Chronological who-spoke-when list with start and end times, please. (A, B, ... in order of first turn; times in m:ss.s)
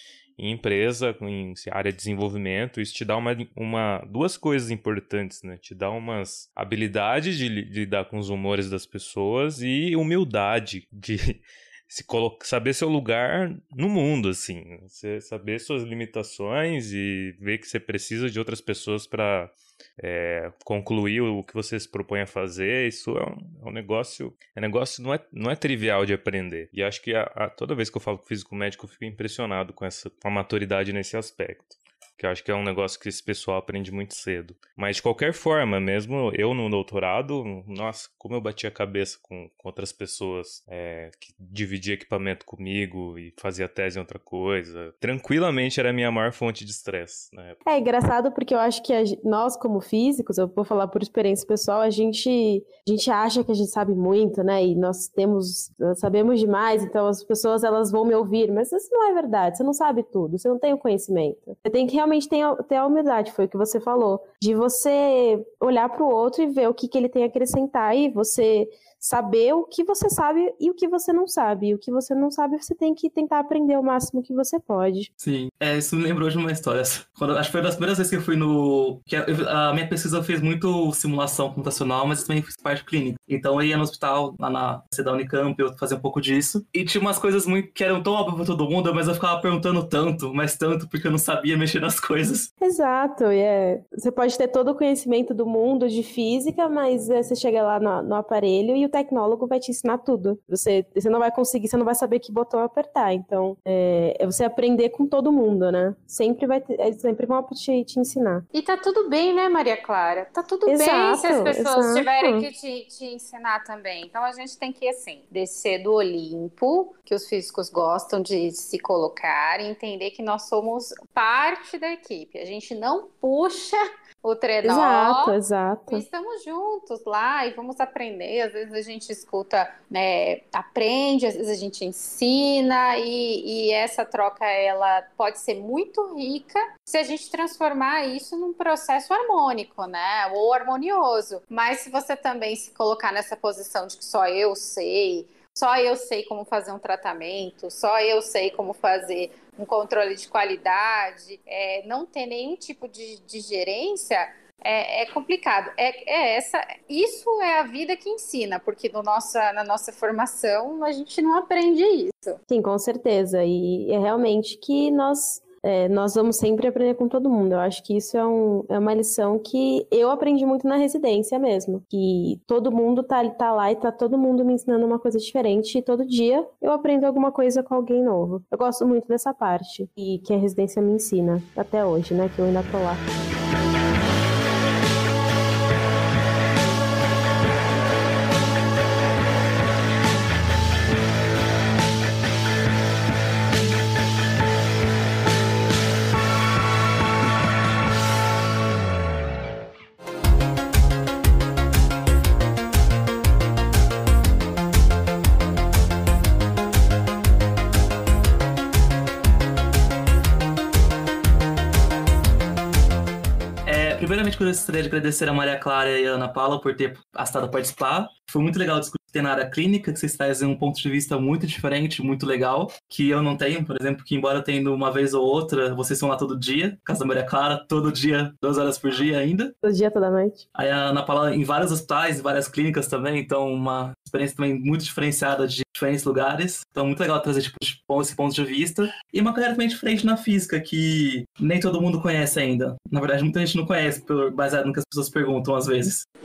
0:00.4-0:47.6 A
0:47.6-1:15.1 B
1:15.2-1:32.5 C
1:32.6-1:48.4 B
1:48.5-2:05.4 D
1:50.7-1:52.5 B
2:04.6-2:06.0 B
2:05.9-2:42.4 D
2:42.5-3:03.0 B
3:33.6-3:49.5 C
3:49.6-3:50.4 B
3:50.5-4:06.0 C